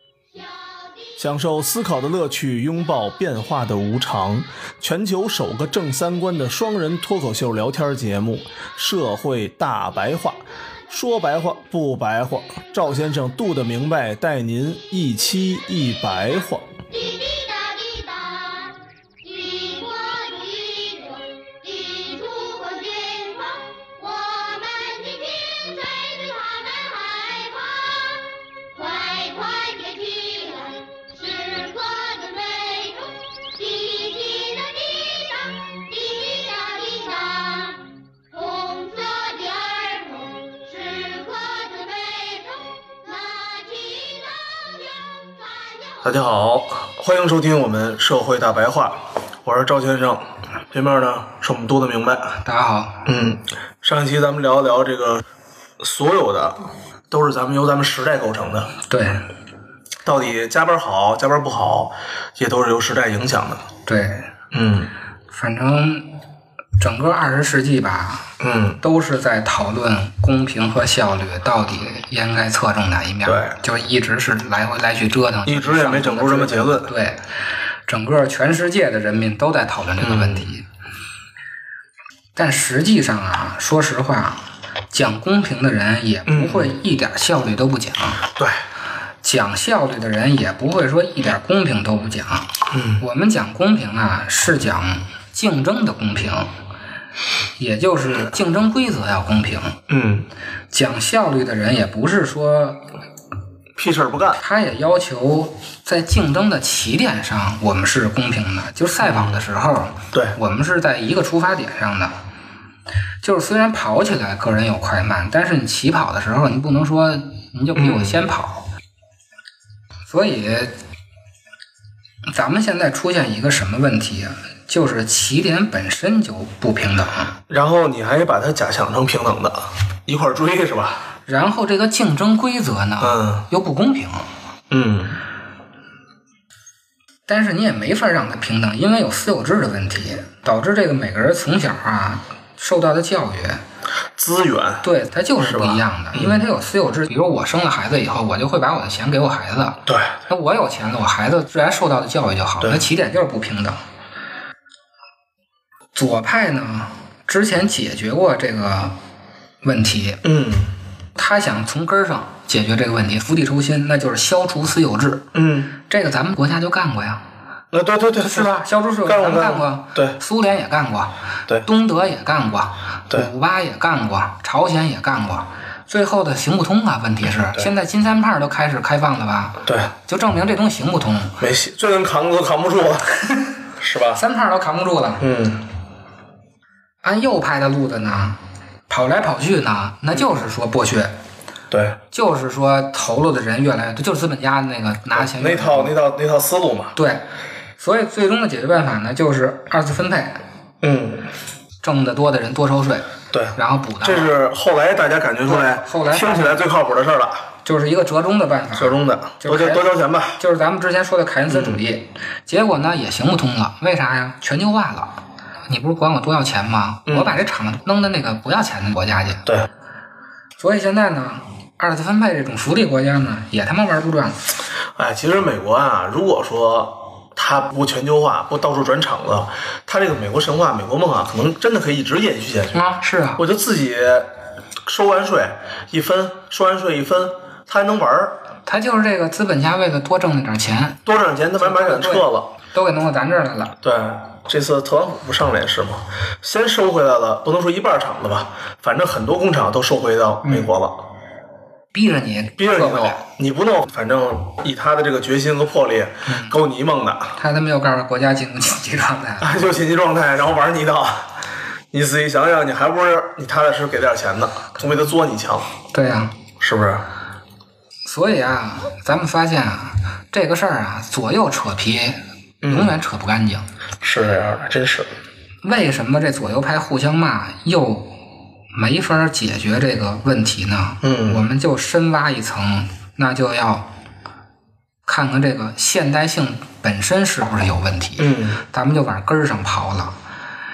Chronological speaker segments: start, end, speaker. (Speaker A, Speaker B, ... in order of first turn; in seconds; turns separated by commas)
Speaker A: 0.3-1.2, Speaker B: 1.2-16.7, Speaker A: 16.9-46.1, Speaker B: 46.0-52.4, Speaker C: 52.4-53.0, Speaker B: 53.0-55.2, Speaker B: 55.8-58.7, Speaker C: 58.9-59.2, Speaker B: 60.0-63.6, Speaker C: 63.9-64.3, Speaker B: 64.5-64.9, Speaker C: 65.3-66.1, Speaker C: 66.8-77.2, Speaker B: 68.4-68.8, Speaker B: 73.2-73.5, Speaker B: 75.5-76.9, Speaker C: 77.9-80.7, Speaker B: 80.0-80.5, Speaker C: 82.3-88.2, Speaker B: 86.3-86.7, Speaker C: 89.2-96.5, Speaker B: 92.7-93.0, Speaker C: 97.6-99.8, Speaker B: 99.9-100.3, Speaker C: 100.7-102.8, Speaker B: 103.8-104.4, Speaker C: 104.4-112.1, Speaker B: 109.0-109.4, Speaker C: 113.2-118.7, Speaker B: 117.7-118.2, Speaker C: 120.1-120.7, Speaker C: 122.3-127.3, Speaker B: 127.5-131.0, Speaker C: 131.2-134.3, Speaker B: 133.0-133.4, Speaker B: 134.7-135.2, Speaker C: 137.3-143.6, Speaker B: 144.2-144.8, Speaker C: 144.8-153.8, Speaker B: 145.4-146.4, Speaker B: 149.8-150.2, Speaker C: 155.9-158.9, Speaker C: 159.6-160.2, Speaker B: 160.2-160.7, Speaker C: 161.2-167.2, Speaker B: 165.3-165.7, Speaker B: 167.7-170.2, Speaker C: 168.2-181.4, Speaker B: 179.6-179.9, Speaker B: 181.4-183.1, Speaker B: 183.8-184.2, Speaker C: 184.1-185.2, Speaker B: 185.2-185.6, Speaker C: 187.0-188.4, Speaker C: 188.9-191.1, Speaker B: 191.7-192.0, Speaker C: 192.1-195.9, Speaker B: 195.1-196.9, Speaker C: 196.9-197.2, Speaker C: 197.8-200.4, Speaker B: 200.8-201.3, Speaker C: 201.8-204.3, Speaker B: 203.3-207.5, Speaker C: 205.4-206.6, Speaker C: 207.6-215.2, Speaker B: 208.8-210.4, Speaker B: 211.5-211.8, Speaker C: 215.7-219.4, Speaker B: 217.1-217.4, Speaker C: 220.6-224.4, Speaker B: 224.9-232.8, Speaker C: 232.7-233.4, Speaker B: 233.4-234.3, Speaker B: 234.8-238.4, Speaker C: 238.7-241.0, Speaker B: 241.0-242.5, Speaker C: 241.6-243.8, Speaker B: 243.8-251.0, Speaker C: 250.4-250.7, Speaker C: 251.9-253.2, Speaker B: 252.6-257.4, Speaker C: 256.3-256.5, Speaker C: 257.4-259.6, Speaker B: 259.4-261.3, Speaker B: 261.9-265.7, Speaker C: 265.9-266.4, Speaker B: 266.6-267.0, Speaker C: 268.1-273.6, Speaker B: 272.6-272.9, Speaker B: 274.0-275.1, Speaker C: 275.6-278.2, Speaker C: 278.7-283.9, Speaker B: 281.0-281.4, Speaker C: 285.1-290.1, Speaker B: 288.2-288.6